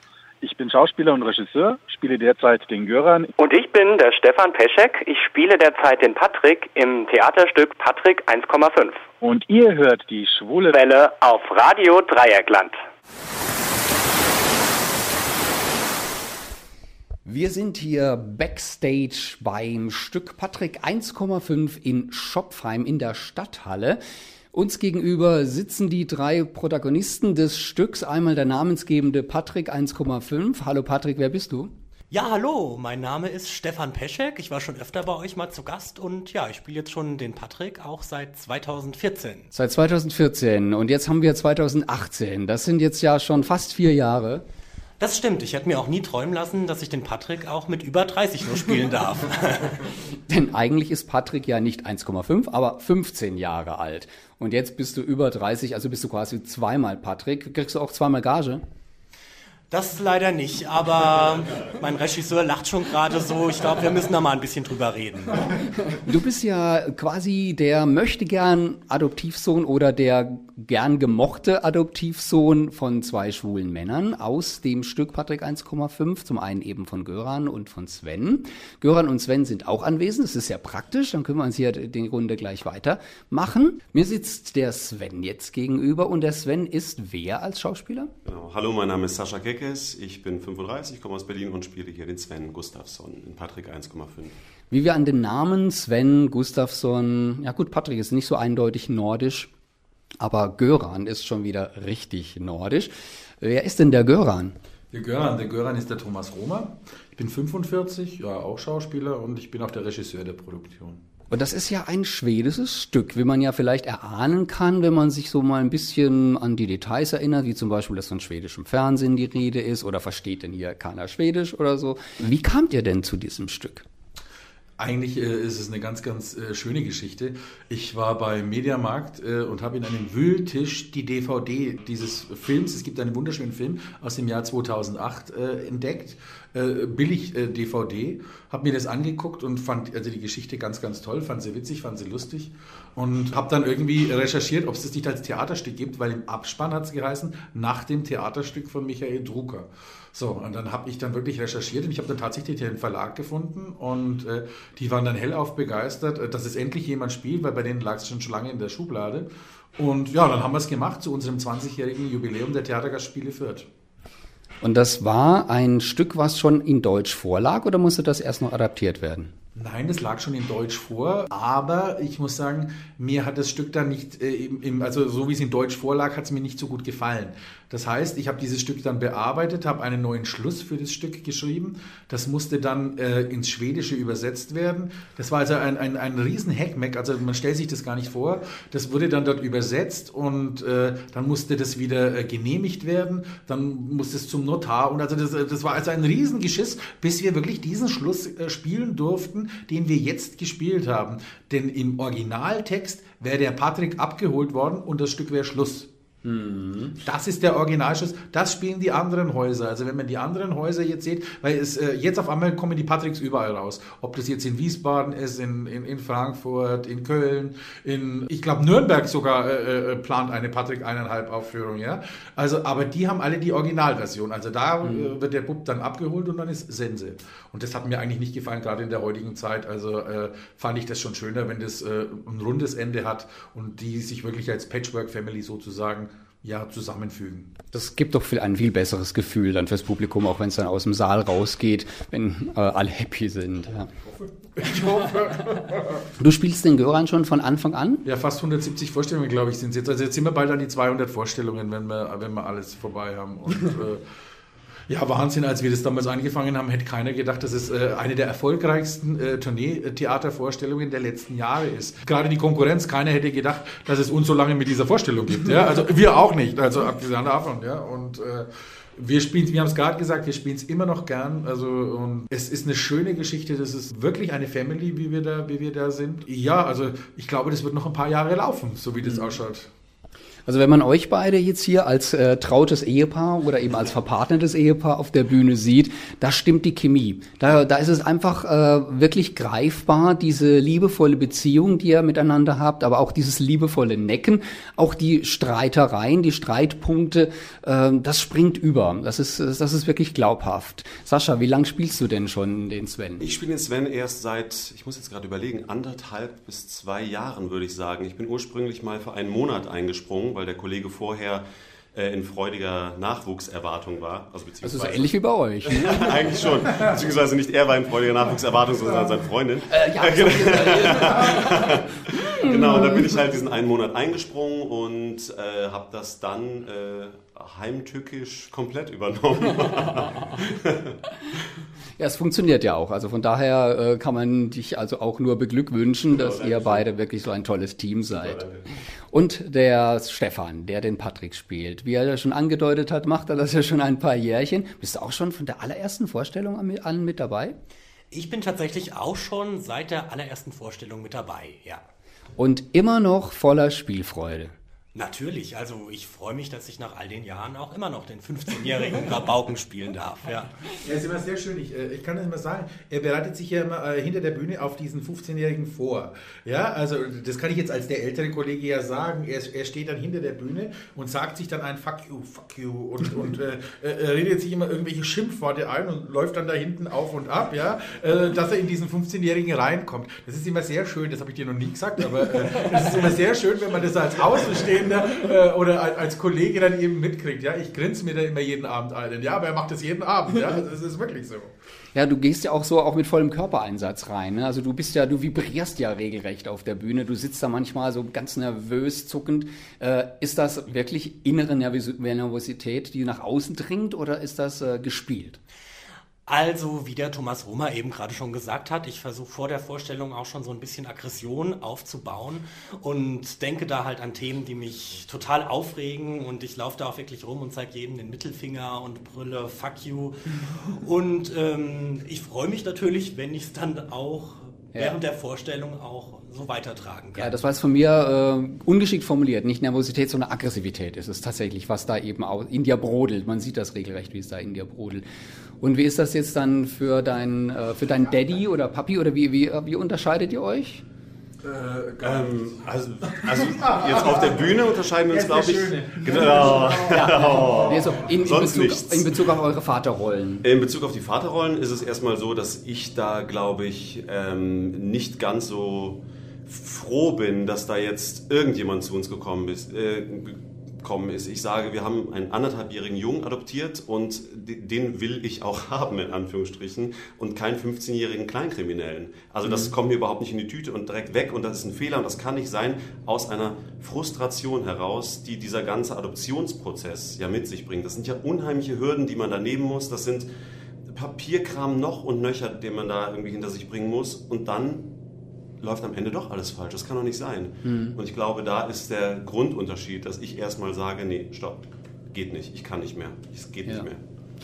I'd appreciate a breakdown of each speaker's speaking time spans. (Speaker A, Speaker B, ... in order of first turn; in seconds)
Speaker A: 0.4-3.3, 9.2-10.8
Speaker B: 3.4-9.1, 10.7-12.8
Speaker C: 17.2-24.0, 24.5-31.7, 39.5-44.4, 50.3-58.6, 66.0-88.1, 94.7-99.5, 100.2-104.6, 111.3-123.8, 164.6-169.3, 206.2-207.0, 224.8-225.1, 237.7-243.9, 246.2-248.0, 279.0-279.3, 280.5-303.2, 314.6-316.2, 319.7-321.8, 322.4-323.0, 332.0-338.4, 339.1-347.6, 352.4-354.5, 391.9-405.4, 427.2-435.0, 435.6-440.8, 446.9-450.4, 469.5-469.7, 487.6-488.0
Speaker D: 32.1-39.5, 45.0-49.9, 59.7-65.6, 348.1-351.8, 354.9-360.6, 406.3-427.4
Speaker E: 88.2-94.3, 303.2-315.1, 315.6-331.0, 336.1-336.9, 338.1-338.7, 442.0-449.4, 450.4-480.3, 480.9-484.9, 485.6-494.0
Speaker F: 104.9-111.0, 124.8-163.7, 169.6-205.9, 207.0-237.5, 243.9-246.1, 248.0-254.1, 254.9-279.7, 360.8-391.5, 441.4-442.5, 443.1-448.1